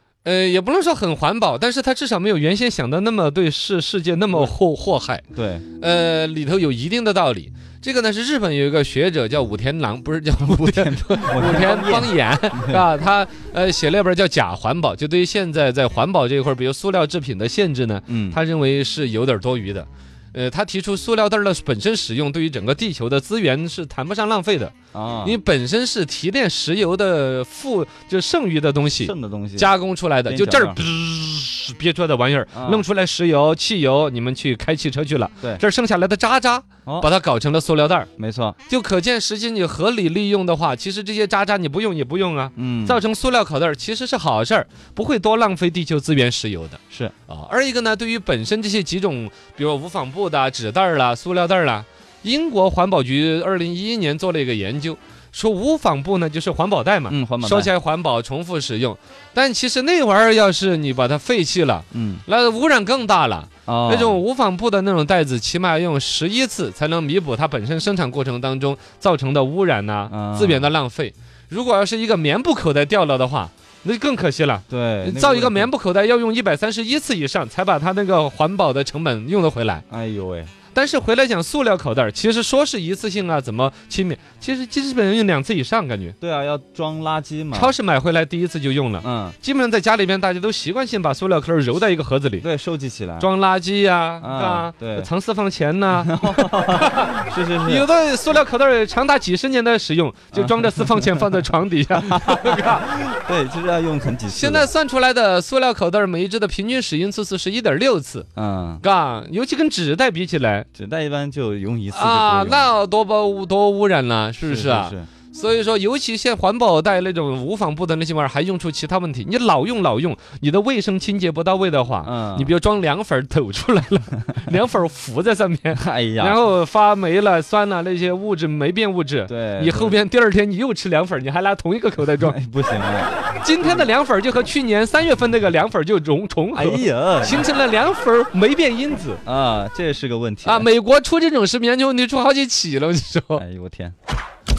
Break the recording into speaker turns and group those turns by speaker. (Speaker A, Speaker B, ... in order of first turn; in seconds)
Speaker A: 0.2-5.2, 5.8-38.1, 38.7-79.8, 80.7-86.2, 87.5-92.5, 93.2-102.9, 104.3-108.3, 108.8-110.7, 111.9-132.4, 133.4-139.2, 140.4-143.4
Speaker B: 5.3-5.7, 10.4-12.8, 18.1-18.4, 24.9-25.4, 29.0-29.7, 30.3-30.8, 32.5-32.8, 38.2-38.6, 42.6-43.0, 57.1-57.7, 61.9-62.2, 63.7-64.2, 70.1-70.7, 74.7-75.7, 79.9-80.5, 86.2-87.7, 89.0-89.4, 92.4-93.3, 94.2-95.1, 95.9-97.9, 100.3-101.3, 101.9-104.7, 108.4-108.8, 110.8-112.7, 114.4-115.1, 122.0-122.5, 125.8-126.4, 129.3-130.0, 132.2-133.9, 136.5-137.5, 139.2-140.7, 143.4-143.9